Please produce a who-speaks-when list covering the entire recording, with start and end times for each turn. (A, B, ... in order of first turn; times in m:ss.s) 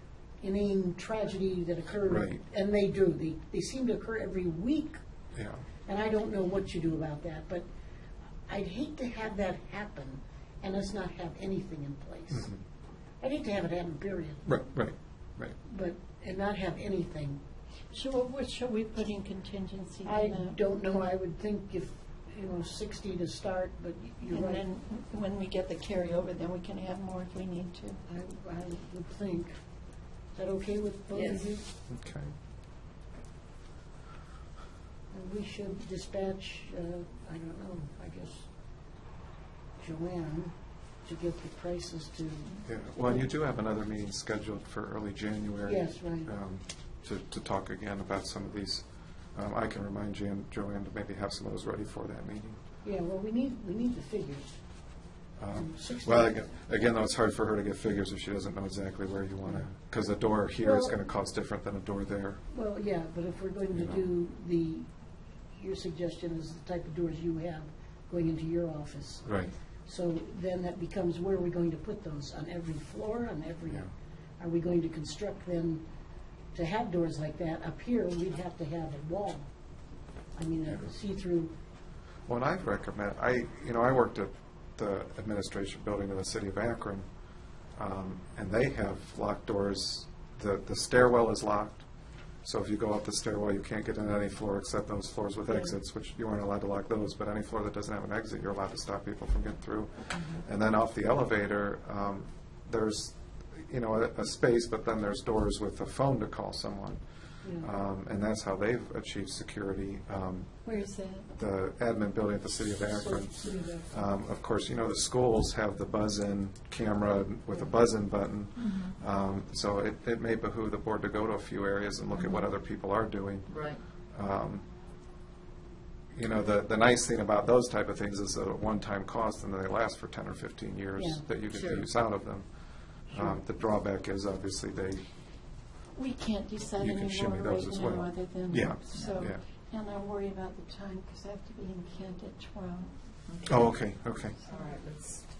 0:00.4-0:05.0 A
0:02.0-0:02.4 B
0:05.3-0:05.6 B
0:05.8-0:07.6 A
0:08.5-0:12.5 A
0:12.3-0:12.6 B
0:13.2-0:14.4 A
0:14.4-0:15.6 B
0:15.6-0:17.4 A
0:17.9-0:20.6 C
0:20.0-0:24.6 A
0:24.3-0:28.0 C
0:28.1-0:29.5 A
0:30.3-0:31.6 A
0:31.1-0:31.4 D
0:31.9-0:32.3 B
0:35.1-0:38.5 A
0:39.8-0:40.5 A
0:41.0-0:42.6 A
0:42.6-0:52.6 B
0:45.6-0:46.3 A
0:52.8-0:54.4 A
0:55.4-1:02.4 B
0:55.6-0:56.4 A
1:00.6-1:00.9 A
1:02.5-1:04.9 A
1:05.6-1:09.3 A
1:09.2-1:09.5 B
1:09.8-1:15.8 A
1:16.5-1:19.5 A
1:20.4-1:21.5 A
1:22.3-1:27.0 B
1:27.8-1:31.8 B
1:32.4-1:47.0 B
1:47.4-1:47.7 A
1:47.6-1:50.5 B
1:50.6-1:51.3 C
1:51.4-2:04.6 B
1:52.9-1:53.9 A
1:58.6-1:59.0 D
2:02.1-2:02.5 D
2:03.5-2:03.8 D
2:06.1-2:15.0 B
2:11.0-2:11.2 A
2:11.5-2:11.9 D
2:13.1-2:13.4 A
2:15.9-2:22.9 C
2:16.8-2:19.4 B
2:23.3-2:23.7 D
2:23.4-2:24.4 B
2:24.4-2:25.2 D